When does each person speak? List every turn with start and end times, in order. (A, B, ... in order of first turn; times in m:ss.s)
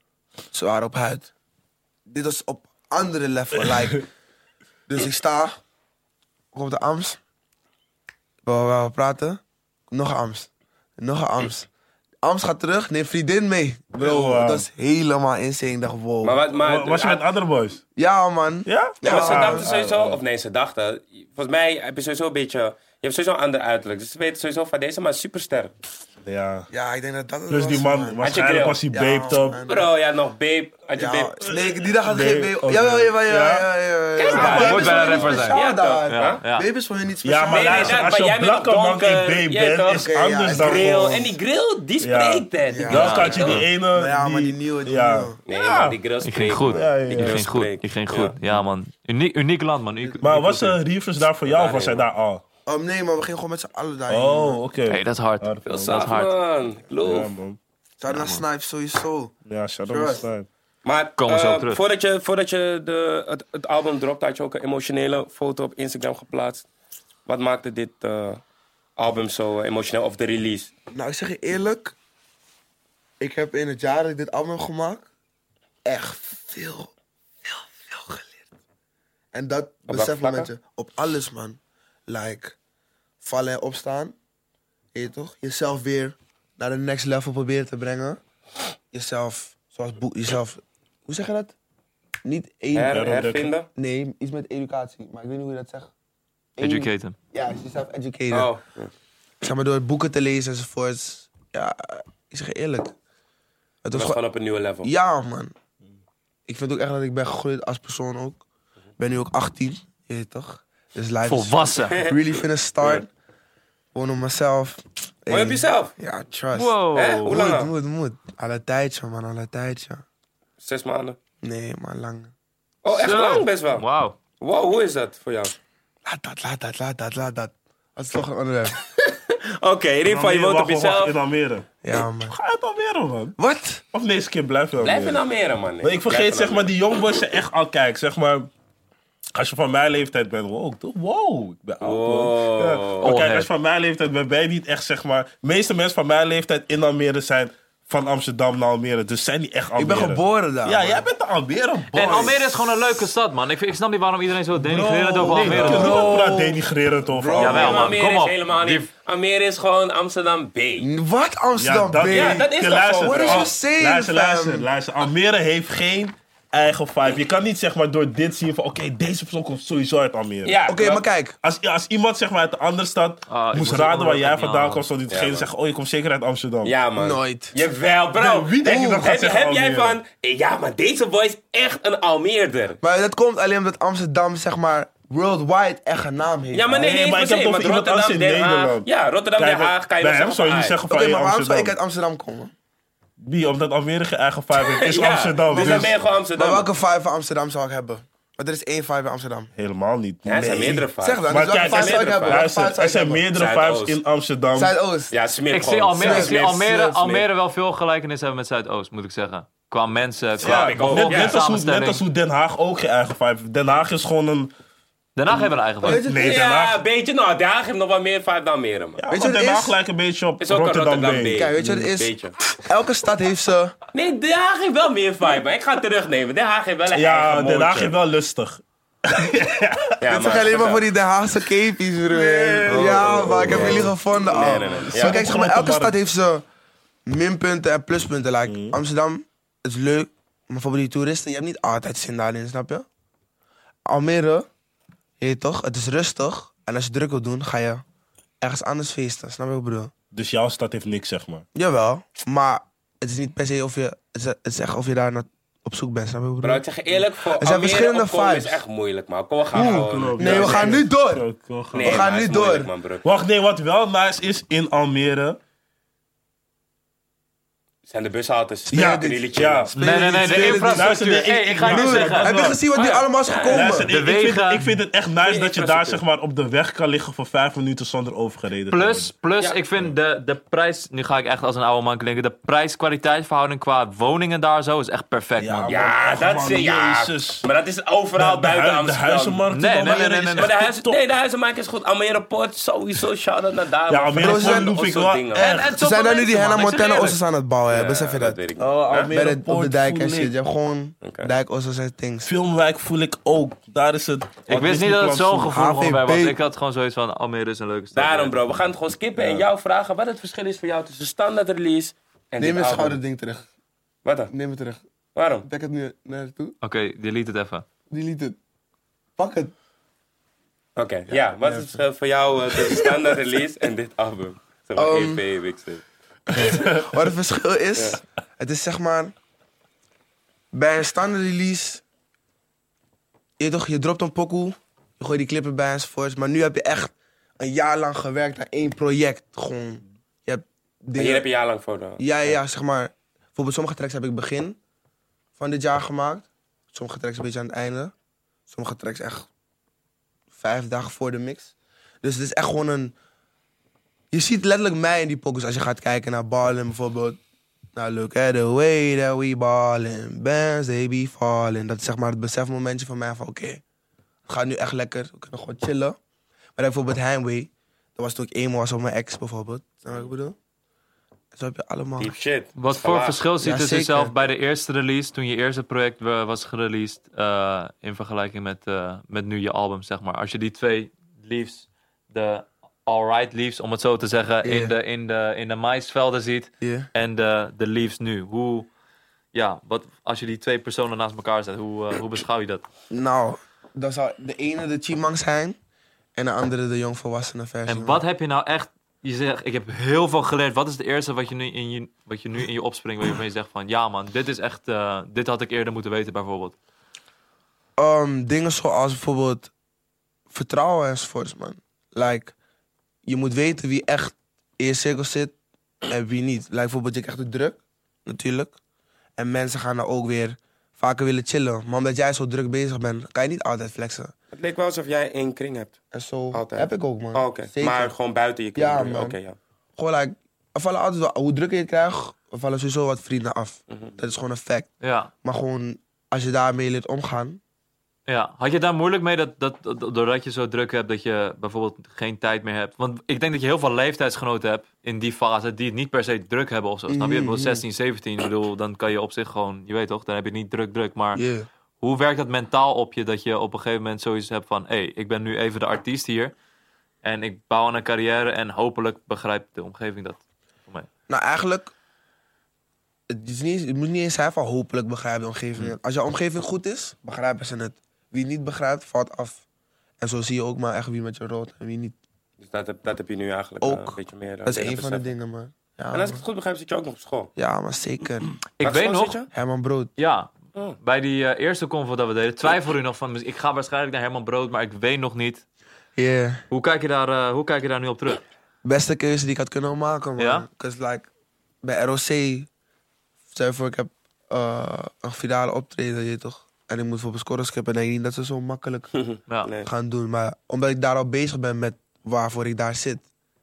0:00.5-0:01.3 A
0:02.1-0:04.1 A
0:04.9-0:05.6 A
0:06.5-0:07.2 A
0:08.4-0:11.7 A
0:12.2-0:16.4 A
0:14.0-0:14.7 B
0:16.2-0:17.2 C
0:16.6-0:17.8 B
0:18.0-0:19.7 A
0:18.6-0:20.2 B
0:19.0-0:25.7 C
0:26.2-0:26.7 B
0:26.7-0:28.4 A
0:27.5-0:29.6 B
0:28.2-0:28.8 C
0:28.9-0:29.9 A
0:29.6-0:31.4 C
0:30.9-0:38.1 A
0:31.4-0:33.6 B
0:34.2-0:36.4 C
0:34.3-0:35.0 B
0:34.3-0:35.6 D
0:36.1-0:36.7 D
0:37.2-0:41.3 B
0:37.5-0:43.6 C
0:39.9-0:41.2 A
0:42.0-0:46.0 B
0:42.7-0:45.4 A
0:42.9-0:43.6 D
0:45.5-0:48.3 C
0:46.2-0:50.8 D
0:46.7-0:47.4 B
0:50.2-0:52.4 B
0:51.4-0:52.0 C
0:52.6-0:54.6 A
0:54.1-0:56.1 B
0:54.9-0:56.4 D
0:55.8-0:57.3 C
0:57.0-0:57.6 B
0:58.0-0:59.3 A
0:58.1-0:58.4 D
0:59.4-1:00.5 B
0:59.8-1:00.3 A
1:00.8-1:06.6 C
1:01.2-1:01.8 D
1:07.2-1:08.4 C
1:09.0-1:10.7 C
1:10.9-1:11.9 A
1:13.2-1:15.1 A
1:15.8-1:16.9 A
1:17.4-1:18.5 A
1:19.3-1:22.6 A
1:19.9-1:20.5 C
1:23.2-1:24.1 A
1:24.9-1:28.2 A
1:28.9-1:31.5 A
1:32.2-1:33.2 A
1:32.7-1:33.7 C
1:32.9-1:33.5 B
1:33.7-1:35.9 A
1:36.6-1:38.5 A
1:36.6-1:37.2 D
1:38.3-1:38.9 C
1:39.4-1:42.9 A
1:43.8-1:44.2 A
1:43.9-1:44.9 C
1:44.8-1:45.5 A
1:46.5-1:48.4 A
1:49.0-1:53.1 A
1:51.2-1:52.0 D
1:51.9-1:52.2 C
1:53.9-2:00.0 A
1:55.3-1:55.9 C
1:56.5-1:57.3 D
1:56.9-1:57.7 C
2:00.6-2:01.2 C
2:01.4-2:02.3 A
2:02.8-2:03.8 C
2:02.9-2:04.2 D
2:04.4-2:05.5 C
2:06.0-2:08.7 A
2:09.0-2:11.1 C
2:10.0-2:13.4 B
2:11.8-2:12.3 A
2:13.4-2:13.8 A
2:13.9-2:15.2 B
2:14.8-2:16.7 C
2:15.8-2:18.5 B
2:19.3-2:32.7 B
2:21.8-2:23.1 C
2:23.0-2:23.5 D
2:29.8-2:31.0 A
2:31.9-2:36.1 D
2:34.6-2:37.9 A
2:35.2-2:37.9 B
2:35.4-2:36.3 C
2:37.3-2:40.9 C
2:37.4-2:38.9 D
2:40.8-2:44.7 A
2:41.6-2:50.6 B
2:42.1-2:43.5 C
2:50.4-2:51.0 C
2:50.7-2:51.4 A
2:51.4-2:56.7 B
2:53.3-2:54.8 D
2:55.1-2:55.5 C
2:56.6-3:02.8 C
2:57.0-2:57.5 A
2:58.2-3:00.0 B
2:58.6-2:59.2 A
3:02.8-3:06.9 A
3:06.5-3:10.8 C
3:06.7-3:11.8 B
3:10.9-3:12.5 A
3:13.2-3:16.0 B
3:14.5-3:16.7 C
3:15.5-3:19.5 A
3:19.6-3:24.7 B
3:20.2-3:22.5 C
3:21.0-3:23.2 A
3:23.3-3:24.0 C
3:24.5-3:25.1 A
3:25.1-3:27.2 C
3:25.5-3:32.0 D
3:26.0-3:26.4 A
3:30.4-3:31.4 C
3:30.4-3:34.5 B
3:35.2-3:36.0 D
3:35.8-3:36.4 A
3:35.9-3:36.8 B
3:36.0-3:39.0 C
3:39.0-3:41.7 B
3:39.1-3:39.8 A
3:40.4-3:42.4 C
3:41.3-3:42.1 A
3:42.6-3:43.7 A
3:43.9-3:47.9 C
3:46.9-3:50.3 B
3:50.0-3:50.8 C
3:50.1-3:56.4 A
3:52.1-3:55.9 B
3:52.6-3:55.2 C
3:57.0-4:02.8 A
3:58.4-3:58.8 B
4:03.9-4:04.5 A
4:05.2-4:07.8 A
4:08.4-4:09.9 A
4:10.1-4:11.4 B
4:11.5-4:16.6 A
4:16.4-4:20.8 C
4:17.4-4:18.6 A
4:19.5-4:21.2 A
4:19.5-4:22.0 B
4:21.7-4:23.0 C
4:21.8-4:22.7 A
4:23.0-4:25.4 B
4:27.9-4:29.7 C
4:28.7-4:31.0 A
4:28.7-4:32.6 B
4:29.8-4:32.5 D
4:31.6-4:33.9 A
4:32.7-4:33.8 C
4:33.5-4:39.1 B
4:33.9-4:34.8 D
4:35.2-4:36.0 C
4:38.7-4:45.7 D
4:45.4-4:47.4 B
4:45.7-4:49.4 C
4:48.2-4:51.0 B
4:49.5-4:50.5 D
4:50.4-4:55.5 C
4:53.9-4:55.8 B
4:54.1-4:54.7 A
4:55.4-4:57.2 D
4:55.5-4:58.4 A
4:57.7-4:59.1 C
4:58.6-5:00.3 B
4:59.1-5:02.3 A
5:01.0-5:01.3 C
5:02.2-5:05.5 B
5:04.5-5:08.5 D
5:05.5-5:06.4 A
5:07.9-5:13.0 C
5:09.2-5:09.4 B
5:12.4-5:13.4 A
5:14.0-5:14.3 C
5:14.3-5:14.8 A
5:15.1-5:15.5 C
5:15.4-5:16.6 A
5:16.6-5:17.6 D
5:17.9-5:18.4 A
5:19.2-5:19.5 A
5:20.8-5:25.8 C
5:21.4-5:21.8 A
5:22.6-5:22.9 A
5:24.8-5:25.2 A
5:26.3-5:29.1 A
5:26.3-5:27.0 B
5:30.5-5:31.8 A
5:33.4-5:41.3 A
5:40.9-5:42.4 C
5:42.0-5:44.6 A
5:45.4-5:47.9 A
5:48.5-5:49.3 A
5:50.3-5:52.9 A
5:54.1-5:57.2 A
5:57.7-6:03.6 A
6:04.3-6:06.0 A
6:06.6-6:10.4 A
6:11.3-6:12.2 A
6:12.0-6:13.2 C
6:12.6-6:28.7 D
6:13.4-6:14.2 A
6:24.4-6:24.7 A
6:26.6-6:26.9 A
6:29.3-6:32.6 D
6:32.9-6:35.6 A
6:36.2-6:38.0 A
6:37.7-6:46.5 D
6:47.8-6:49.5 A
6:50.3-6:52.3 A
6:53.0-6:55.3 A
6:55.9-6:58.6 A
6:59.2-7:04.1 A
7:04.3-7:05.8 C
7:05.9-7:07.9 A
7:06.3-7:09.4 C
7:08.5-7:09.2 A
7:09.8-7:14.7 A
7:13.7-7:13.9 C
7:14.8-7:15.1 D
7:15.2-7:17.4 A
7:18.1-7:31.2 D
7:26.9-7:27.6 A
7:31.1-7:31.5 A
7:31.8-7:36.3 D
7:37.0-7:40.9 D
7:41.1-7:41.7 A
7:43.1-7:49.4 A
7:50.0-7:52.0 A
7:52.4-7:55.1 C
7:53.6-7:56.2 A
7:55.9-7:57.3 C
7:57.4-7:58.3 A
7:58.6-7:59.2 D
7:58.6-7:59.3 C
7:59.3-7:59.9 A
8:00.0-8:05.4 D
8:06.0-8:06.4 A
8:06.5-8:08.2 D
8:08.6-8:11.1 A
8:10.2-8:10.5 D
8:11.6-8:12.5 A
8:13.3-8:18.9 A
8:18.9-8:19.7 C
8:19.6-8:23.0 A